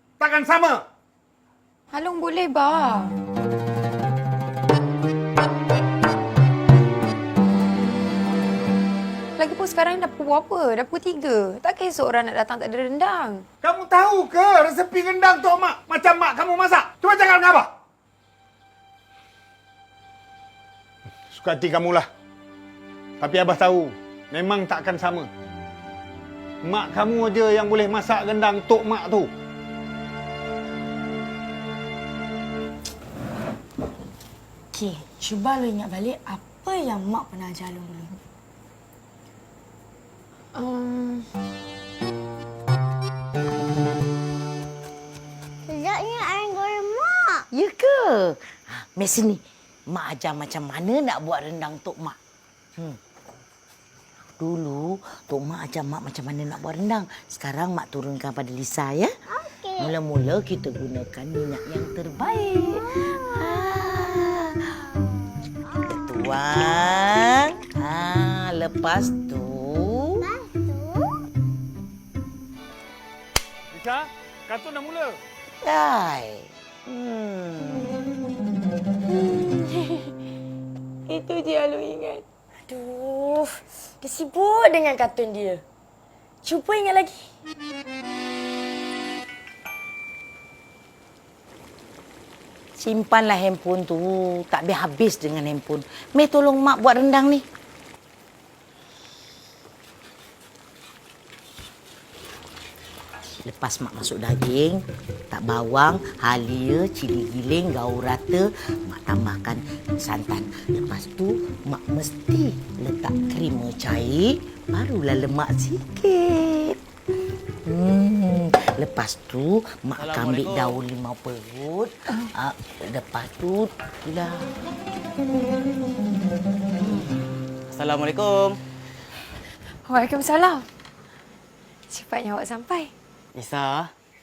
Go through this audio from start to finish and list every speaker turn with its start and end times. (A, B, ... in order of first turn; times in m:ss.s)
0:00.2-0:00.8 A
0:01.9-0:03.2 B
0:09.4-0:13.4 B
0:13.6-0:17.7 A
0:21.3-0:22.1 A
0:23.2-0:25.3 A
0:26.6-0:29.3 A
0:34.7-0:38.1 C
0:40.6-0:41.2 B
0:45.7-0:47.4 D
0:47.5-0:52.2 E
0:54.4-0:59.1 E
0:59.7-1:05.0 E
1:05.7-1:10.3 E
1:10.6-1:11.1 D
1:13.7-1:15.2 A
1:15.6-1:17.9 E
1:21.1-1:22.2 B
1:22.7-1:25.6 C
1:26.4-1:27.3 C
1:32.8-1:37.4 E
1:43.5-1:56.8 E
1:57.6-2:04.6 E
2:00.0-2:00.8 F
2:07.7-2:08.6 F
2:09.8-2:10.7 B
2:11.9-2:12.9 B
2:13.4-2:13.9 F